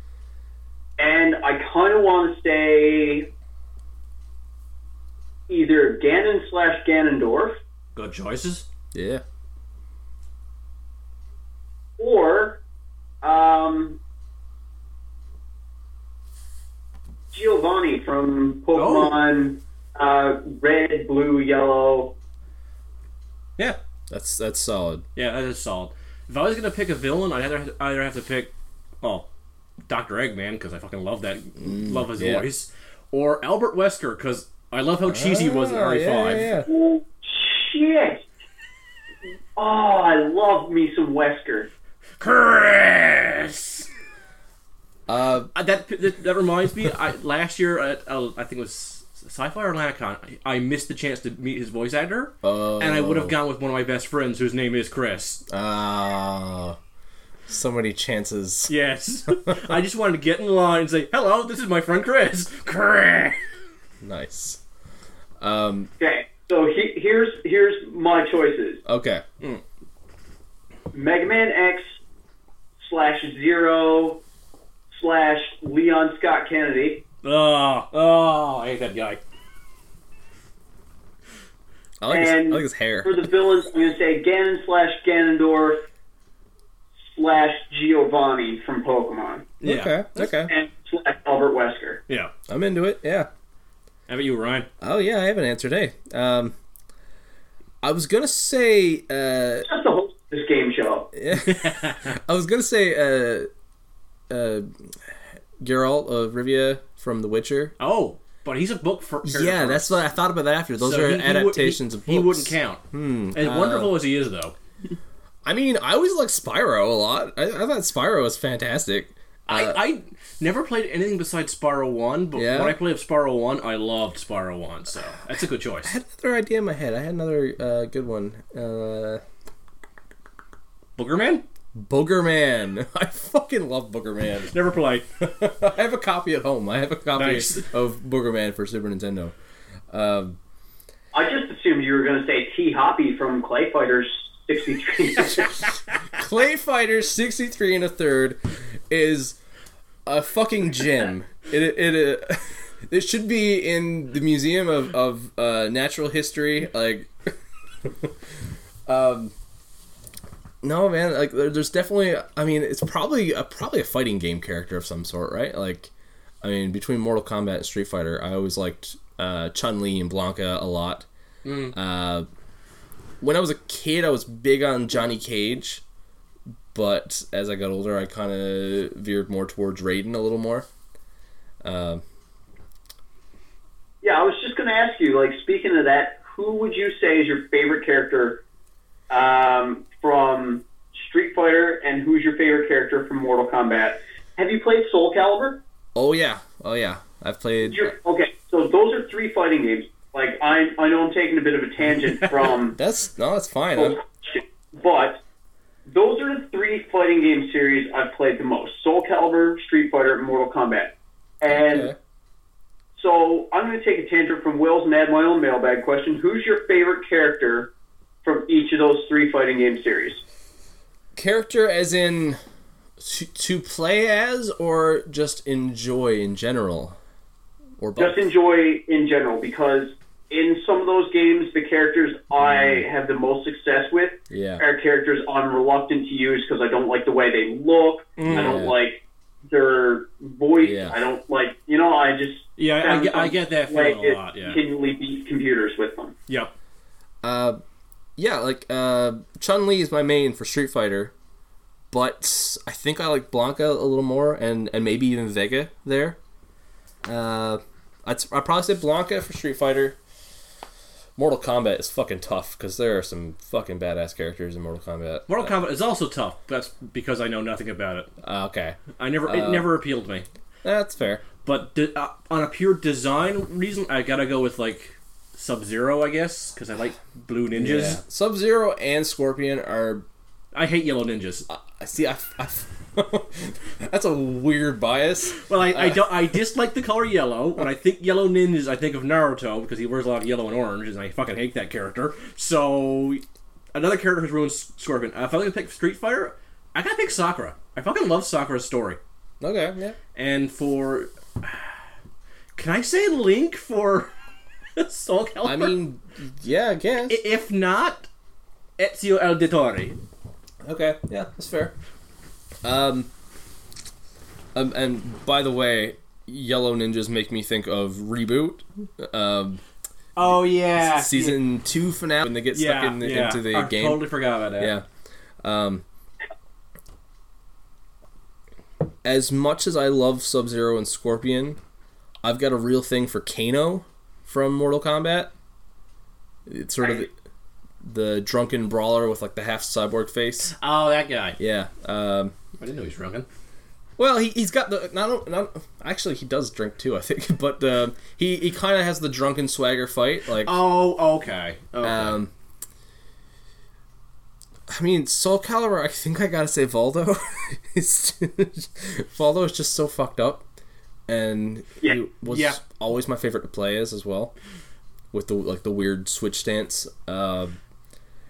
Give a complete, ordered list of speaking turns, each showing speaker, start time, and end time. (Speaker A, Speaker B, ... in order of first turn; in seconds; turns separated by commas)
Speaker A: 1.0-3.3, Speaker A: 5.5-7.6, Speaker B: 7.9-8.7, Speaker C: 8.9-9.2, Speaker A: 12.0-12.6, Speaker A: 13.2-14.0, Speaker A: 17.3-22.1, Speaker B: 18.8-19.1, Speaker C: 24.1-25.0, Speaker B: 25.1-29.3, Speaker B: 29.9-36.5, Speaker C: 31.6-32.4, Speaker C: 35.0-36.7, Speaker A: 36.6-38.3, Speaker A: 39.5-41.7, Speaker B: 42.2-43.9, Speaker C: 45.1-45.5, Speaker B: 45.5-55.4, Speaker C: 52.4-53.3, Speaker C: 55.5-56.8, Speaker C: 57.5-58.7, Speaker B: 58.7-63.4, Speaker C: 64.0-64.6, Speaker C: 65.4-65.9, Speaker A: 66.0-68.8, Speaker C: 68.8-69.2, Speaker A: 70.9-72.0, Speaker A: 72.8-74.2, Speaker A: 74.9-77.0, Speaker B: 77.2-79.2, Speaker C: 82.0-83.3, Speaker A: 82.1-85.8, Speaker A: 87.1-89.5, Speaker B: 89.6-90.4, Speaker C: 89.6-90.5, Speaker A: 90.5-92.0, Speaker C: 92.5-93.3, Speaker B: 94.1-94.7, Speaker C: 94.8-96.5, Speaker C: 97.8-99.7, Speaker A: 99.6-101.1, Speaker C: 101.1-103.5, Speaker B: 101.4-102.1, Speaker C: 104.3-107.7, Speaker B: 107.8-110.0, Speaker C: 109.2-113.9, Speaker B: 110.8-112.8, Speaker B: 113.3-114.5, Speaker C: 115.4-119.8, Speaker B: 119.5-125.9, Speaker C: 122.3-122.8, Speaker C: 125.8-129.2, Speaker B: 131.0-131.4, Speaker C: 131.7-134.5, Speaker B: 134.5-135.1, Speaker C: 135.2-139.3, Speaker B: 137.2-137.7, Speaker C: 139.9-140.4, Speaker A: 141.1-145.5, Speaker C: 146.1-149.4, Speaker C: 150.1-158.1, Speaker C: 158.9-159.3, Speaker C: 160.6-165.9, Speaker C: 166.4-171.1, Speaker B: 171.4-171.7, Speaker C: 171.7-172.3, Speaker C: 173.2-175.8, Speaker C: 176.7-180.7, Speaker C: 181.6-182.0, Speaker A: 184.0-188.4, Speaker A: 189.1-195.6, Speaker C: 195.9-197.9, Speaker A: 197.6-202.8, Speaker C: 202.8-204.0, Speaker A: 203.8-205.2, Speaker A: 205.9-211.9, Speaker C: 211.5-211.9, Speaker A: 212.9-217.7, Speaker A: 218.2-220.2, Speaker C: 221.2-222.4, Speaker C: 223.0-227.0, Speaker C: 227.8-228.2, Speaker A: 228.0-246.1, Speaker C: 232.4-232.8, Speaker C: 234.3-234.6, Speaker B: 238.2-238.6, Speaker C: 238.3-238.7, Speaker C: 240.6-241.0, Speaker B: 242.6-244.6, Speaker C: 247.2-247.6, Speaker C: 248.2-251.1, Speaker C: 251.9-256.2, Speaker C: 257.0-260.0, Speaker C: 261.2-265.5, Speaker B: 265.3-268.1, Speaker C: 268.2-269.7, Speaker B: 268.9-270.3, Speaker C: 270.6-271.2, Speaker B: 271.4-278.0, Speaker C: 277.5-280.1, Speaker B: 280.5-281.4, Speaker C: 281.5-286.2, Speaker B: 285.4-299.0, Speaker C: 299.4-300.0, Speaker B: 300.1-301.7, Speaker B: 302.6-304.1, Speaker B: 304.8-305.7, Speaker C: 305.4-307.2, Speaker B: 307.1-308.1, Speaker B: 308.8-310.0, Speaker C: 310.6-311.7, Speaker C: 312.6-313.1, Speaker C: 314.5-319.6, Speaker B: 320.1-321.4, Speaker C: 320.8-324.0, Speaker B: 322.5-324.7, Speaker C: 324.6-324.9, Speaker C: 325.4-325.8, Speaker C: 329.0-331.6, Speaker C: 332.2-335.3, Speaker C: 336.4-337.1, Speaker C: 337.8-340.5, Speaker B: 340.6-341.4, Speaker C: 341.4-342.3, Speaker B: 342.6-343.2, Speaker C: 344.0-350.6, Speaker B: 350.4-352.2, Speaker C: 351.8-352.3, Speaker C: 354.7-360.4, Speaker C: 361.1-364.3, Speaker B: 362.2-362.6, Speaker C: 365.1-367.5